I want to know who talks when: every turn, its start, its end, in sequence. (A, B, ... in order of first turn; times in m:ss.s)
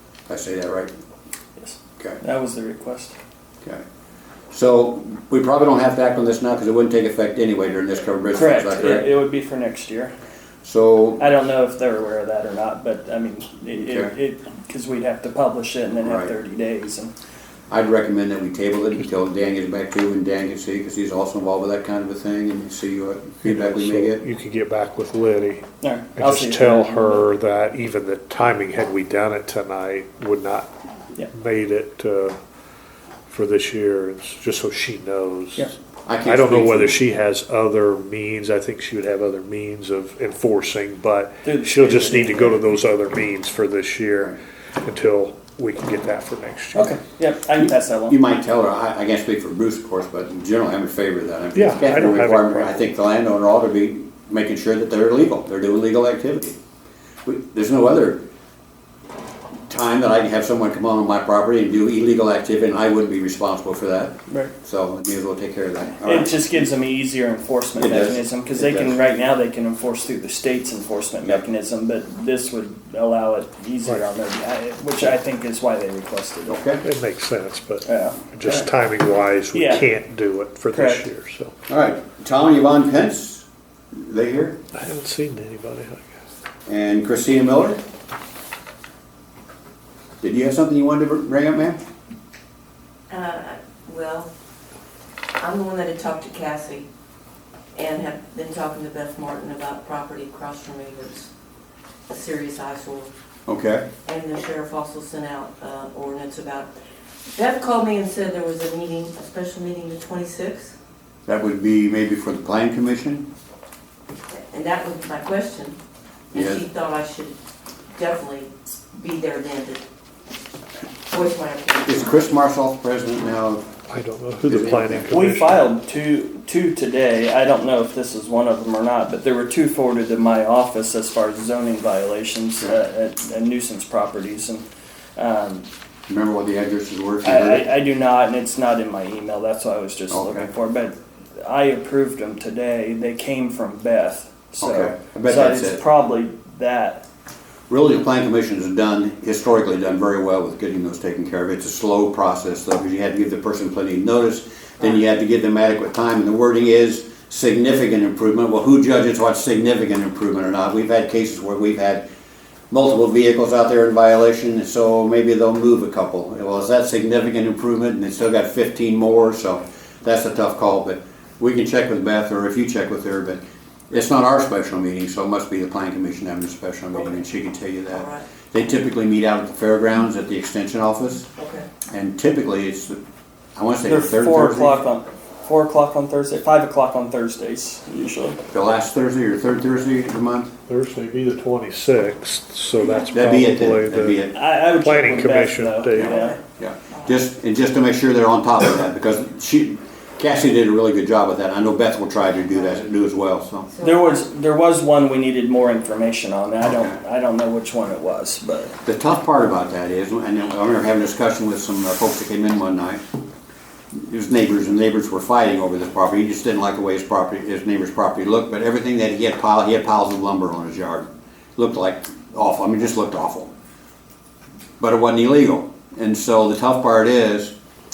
0:00.3-0:00.9 A
0:01.6-0:03.2 B
0:04.5-0:09.1 A
0:08.3-0:10.1 B
0:10.6-0:11.3 A
0:11.2-0:17.1 B
0:13.8-0:14.1 A
0:16.0-0:16.3 A
0:17.7-0:24.2 A
0:23.4-0:30.7 C
0:25.8-0:27.3 B
0:31.3-0:32.4 C
0:33.3-0:35.7 C
0:36.1-0:37.0 A
0:36.2-0:47.0 C
0:41.4-0:42.6 B
0:46.7-0:48.2 B
0:47.6-0:56.6 A
0:51.6-0:52.8 C
0:57.2-0:58.2 A
0:59.7-1:06.7 A
1:06.0-1:16.6 B
1:07.8-1:09.0 A
1:16.5-1:16.8 A
1:16.8-1:21.5 C
1:17.8-1:18.7 B
1:19.5-1:19.8 B
1:20.7-1:21.0 B
1:21.7-1:24.6 A
1:24.7-1:26.2 C
1:26.7-1:27.8 A
1:30.2-1:31.8 A
1:33.1-1:34.3 D
1:35.4-1:36.9 D
1:37.8-1:41.3 D
1:42.1-1:43.1 D
1:43.5-1:43.9 A
1:44.0-1:46.7 D
1:47.4-1:50.8 D
1:51.3-1:53.3 A
1:54.3-1:55.8 D
1:56.3-1:57.4 D
1:56.3-1:56.6 A
1:57.9-1:59.8 D
2:01.1-2:02.1 D
2:01.8-2:03.7 A
2:03.9-2:05.7 C
2:04.4-2:05.1 A
2:05.1-2:15.7 B
2:16.1-2:17.7 A
2:17.2-2:27.0 B
2:20.1-2:20.5 A
2:24.6-2:25.8 A
2:27.7-2:42.1 A
2:42.7-3:01.3 A
2:57.9-2:58.2 D
3:01.4-3:01.7 D
3:01.9-3:03.0 A
3:03.6-3:04.8 A
3:03.8-3:08.4 B
3:08.5-3:10.5 A
3:10.7-3:16.2 C
3:13.1-3:14.4 A
3:14.3-3:16.4 B
3:16.0-3:23.7 A
3:16.1-3:16.4 D
3:16.9-3:17.2 D
3:23.7-3:24.2 D
3:23.8-3:28.7 B
3:28.8-3:33.0 A
3:33.9-3:43.5 A
3:44.8-3:47.5 A